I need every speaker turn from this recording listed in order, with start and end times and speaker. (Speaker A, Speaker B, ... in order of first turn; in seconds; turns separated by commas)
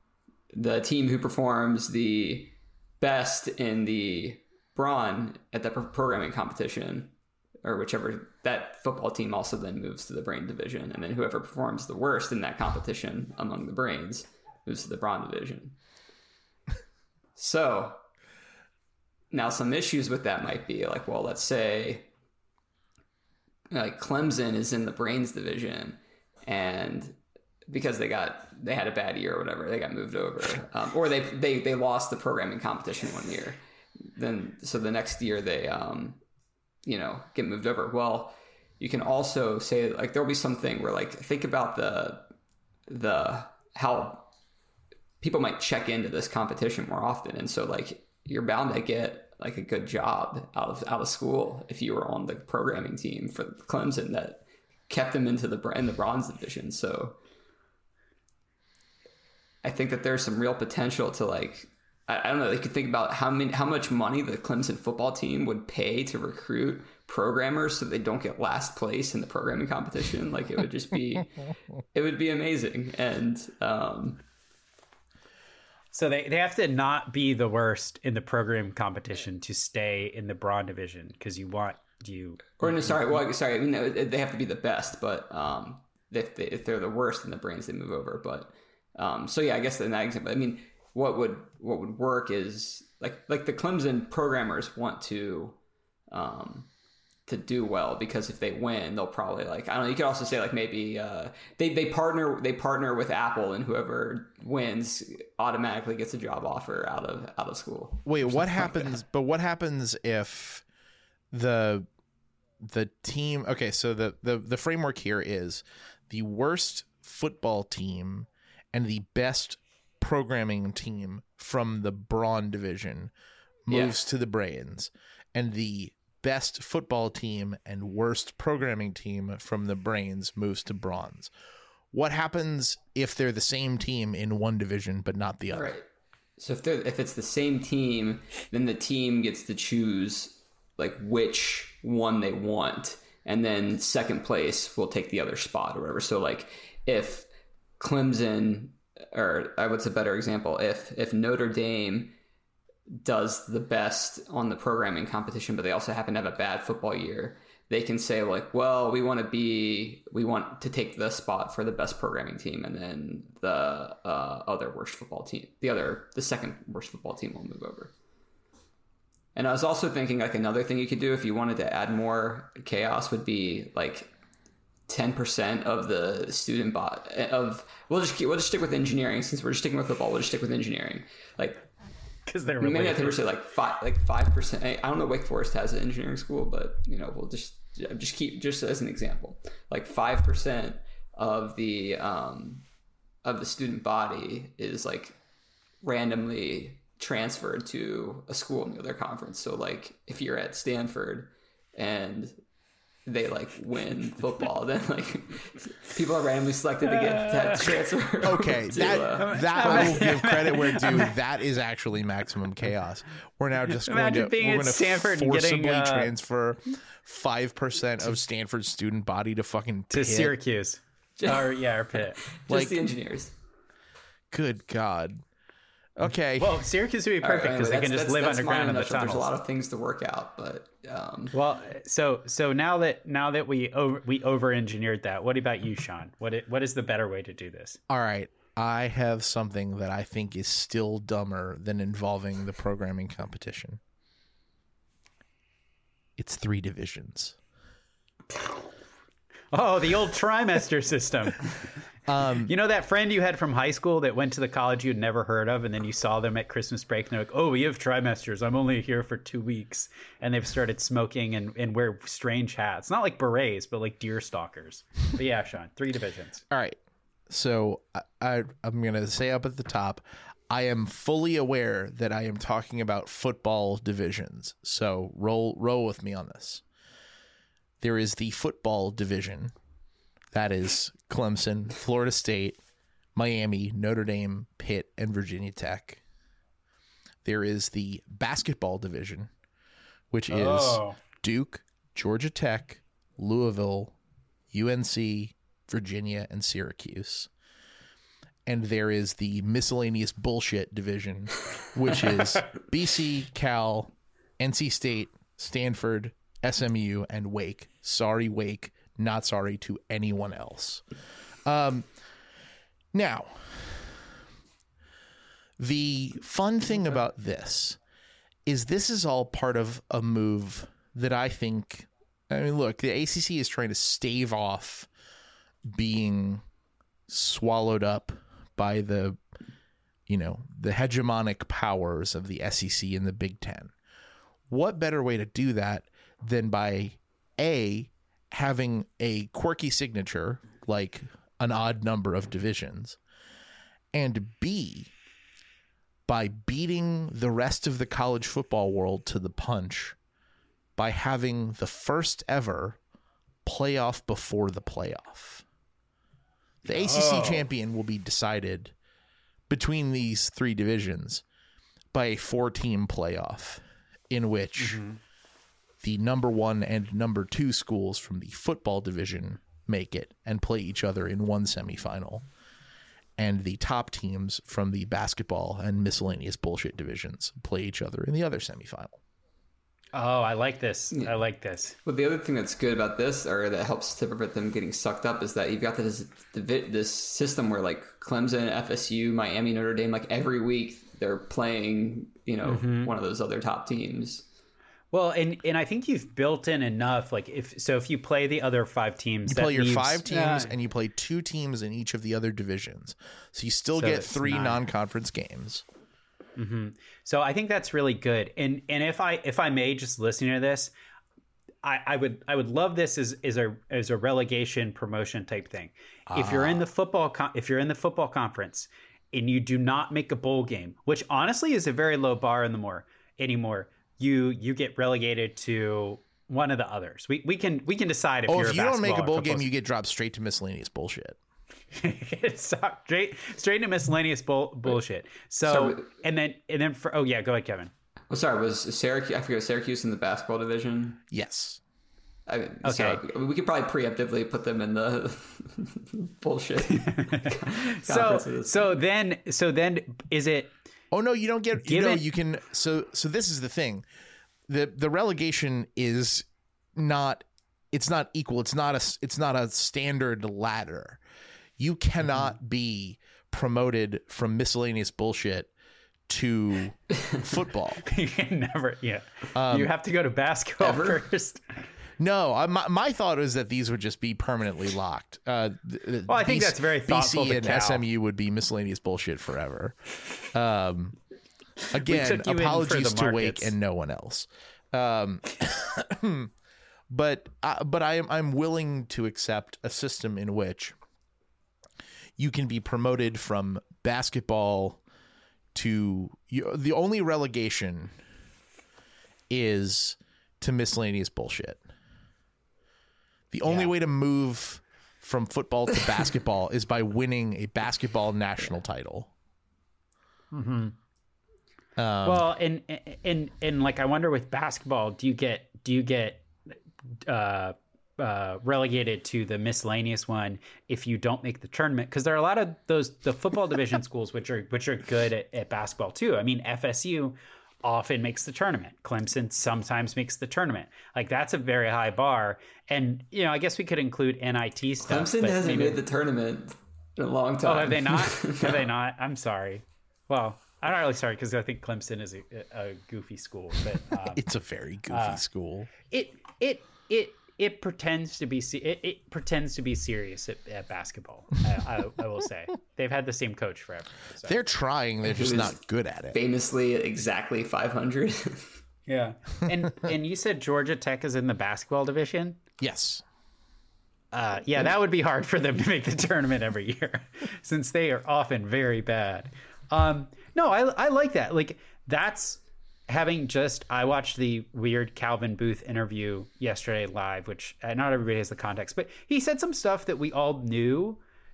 Speaker A: 0.5-15.8, Speaker A: 17.4-18.0, Speaker A: 19.3-22.1, Speaker A: 23.7-36.2, Speaker A: 36.9-42.3, Speaker A: 42.9-44.3, Speaker A: 45.2-57.2, Speaker A: 59.6-74.2, Speaker B: 75.9-83.2, Speaker A: 82.6-95.6, Speaker A: 96.1-96.7, Speaker A: 97.3-108.9, Speaker C: 108.0-110.6, Speaker C: 111.3-111.9, Speaker C: 112.6-123.1, Speaker C: 123.7-131.3, Speaker A: 123.7-124.0, Speaker C: 131.9-135.8, Speaker A: 135.5-135.9, Speaker A: 136.4-147.3, Speaker A: 147.8-152.2, Speaker A: 152.9-167.9, Speaker A: 169.3-174.1, Speaker A: 174.9-181.7, Speaker B: 182.3-183.2, Speaker A: 182.6-192.7, Speaker A: 193.2-195.2, Speaker A: 195.8-202.4, Speaker A: 203.1-210.0, Speaker B: 207.0-207.6, Speaker C: 208.2-220.4, Speaker B: 209.2-211.2, Speaker B: 213.7-216.1, Speaker B: 219.9-222.2, Speaker A: 221.2-221.6, Speaker A: 222.2-223.3, Speaker C: 222.5-222.8, Speaker C: 224.3-225.2, Speaker C: 226.0-226.6, Speaker B: 226.4-229.3, Speaker A: 227.2-231.3, Speaker B: 231.3-237.8, Speaker C: 237.9-243.8, Speaker C: 246.2-247.4, Speaker B: 249.5-251.5, Speaker C: 252.1-252.5, Speaker B: 252.5-266.4, Speaker C: 266.5-266.8, Speaker C: 267.3-276.6, Speaker C: 277.8-279.5, Speaker C: 280.3-282.6, Speaker C: 283.1-286.0, Speaker C: 287.2-289.3, Speaker C: 290.1-293.9, Speaker B: 290.3-291.0, Speaker C: 294.5-297.3, Speaker C: 298.5-310.8, Speaker C: 311.5-311.9, Speaker C: 312.9-314.1, Speaker C: 315.6-317.8, Speaker C: 318.5-324.9, Speaker C: 325.7-326.4, Speaker C: 327.1-329.2, Speaker C: 330.1-333.7, Speaker C: 334.5-343.0, Speaker C: 343.9-344.9, Speaker C: 346.1-350.0, Speaker C: 350.8-352.8, Speaker C: 353.4-355.4, Speaker B: 356.7-357.5, Speaker C: 356.7-358.7, Speaker C: 359.5-361.2, Speaker C: 361.9-364.8, Speaker B: 364.6-365.0, Speaker C: 365.8-372.2, Speaker C: 373.2-379.0, Speaker B: 379.9-381.8, Speaker A: 381.8-394.3, Speaker B: 392.4-392.9, Speaker B: 394.9-400.5, Speaker C: 399.3-405.6, Speaker B: 403.8-404.6, Speaker B: 406.4-410.7, Speaker B: 411.6-429.5, Speaker C: 416.1-416.6, Speaker C: 428.3-431.2, Speaker B: 431.7-437.7, Speaker A: 435.5-435.9, Speaker A: 438.1-441.0, Speaker C: 441.1-441.6, Speaker A: 442.3-448.7, Speaker B: 442.6-443.0, Speaker B: 446.7-450.5, Speaker C: 450.9-453.9, Speaker B: 451.6-452.0, Speaker C: 454.5-461.0, Speaker C: 461.6-465.5, Speaker C: 466.1-467.8, Speaker B: 467.8-471.6, Speaker C: 469.4-469.7, Speaker A: 470.6-471.0, Speaker C: 472.0-481.0, Speaker B: 476.1-477.8, Speaker B: 481.7-483.6, Speaker C: 481.7-486.3, Speaker C: 486.9-490.8, Speaker C: 492.2-494.8, Speaker C: 495.5-498.0, Speaker C: 499.3-501.6, Speaker C: 503.3-509.1, Speaker B: 503.4-503.7, Speaker B: 510.3-510.7, Speaker C: 511.8-512.3, Speaker B: 512.0-535.8, Speaker A: 534.9-538.7, Speaker B: 537.4-544.2, Speaker C: 544.0-545.7, Speaker B: 544.9-545.2, Speaker B: 545.9-554.4, Speaker C: 554.2-556.2, Speaker A: 555.0-558.6, Speaker B: 558.9-562.4, Speaker C: 562.6-563.0, Speaker B: 564.1-581.0